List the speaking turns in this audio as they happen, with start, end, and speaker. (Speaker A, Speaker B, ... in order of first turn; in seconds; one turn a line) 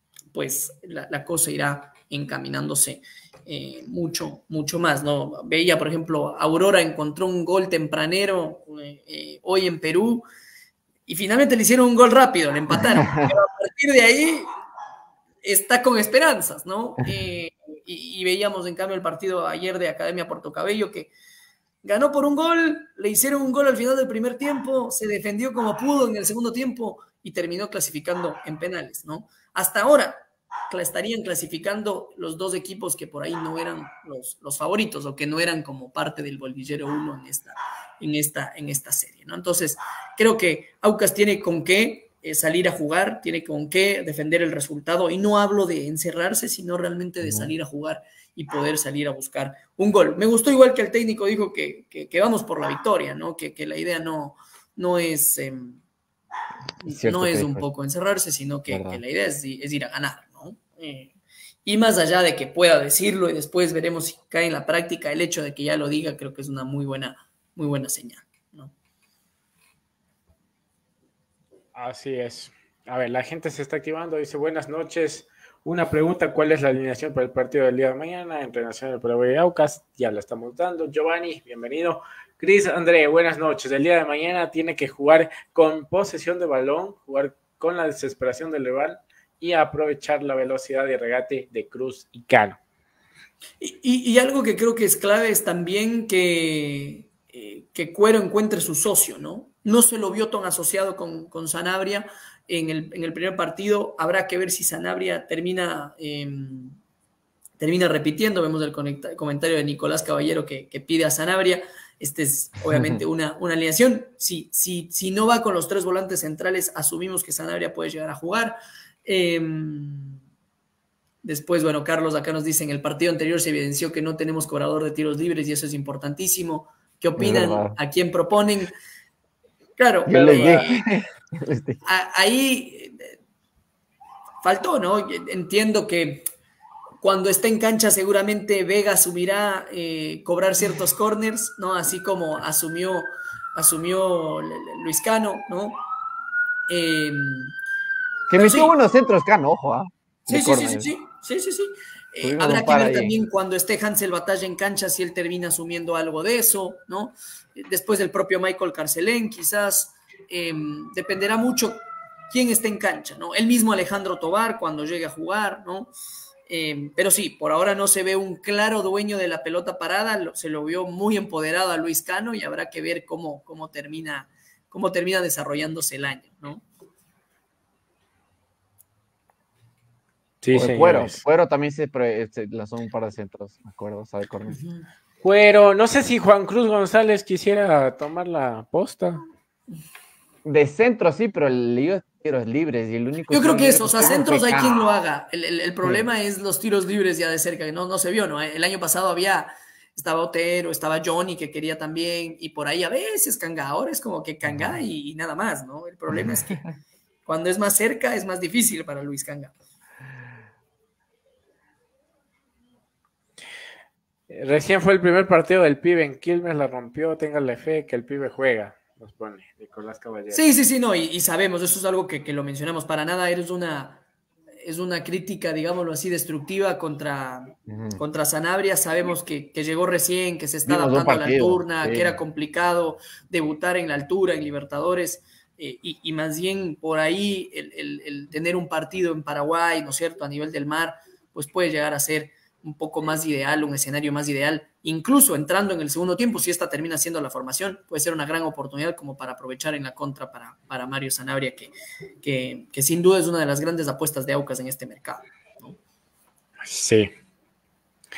Speaker A: 0.3-10.2
Speaker A: 11.1-14.5
Speaker B: 12.7-13.3
Speaker A: 15.4-21.1
Speaker A: 21.8-55.8
Speaker B: 47.2-47.5
Speaker A: 56.8-61.1
Speaker B: 56.9-57.7
Speaker B: 58.7-59.0
Speaker A: 61.6-68.7
Speaker C: 71.8-92.6
Speaker A: 93.6-106.8
Speaker A: 107.6-120.2
Speaker B: 112.7-113.0
Speaker A: 121.2-128.7
Speaker B: 127.2-127.8
Speaker A: 129.8-130.8
Speaker B: 130.1-131.8
Speaker A: 131.8-133.1
Speaker A: 134.4-136.3
Speaker A: 137.0-145.8
Speaker A: 146.7-147.6
Speaker B: 148.3-150.9
Speaker A: 148.3-148.7
Speaker A: 150.3-165.9
Speaker B: 152.2-153.1
Speaker A: 166.5-176.6
Speaker C: 180.4-181.2
Speaker B: 180.5-184.6
Speaker A: 184.5-184.9
Speaker C: 185.2-189.2
Speaker B: 190.4-194.9
Speaker A: 193.3-206.6
Speaker B: 204.5-204.8
Speaker B: 206.2-206.5
Speaker A: 207.3-209.5
Speaker C: 214.3-220.4
Speaker A: 220.3-224.0
Speaker A: 224.6-255.8
Speaker B: 227.7-228.0
Speaker B: 230.7-232.2
Speaker C: 256.6-257.1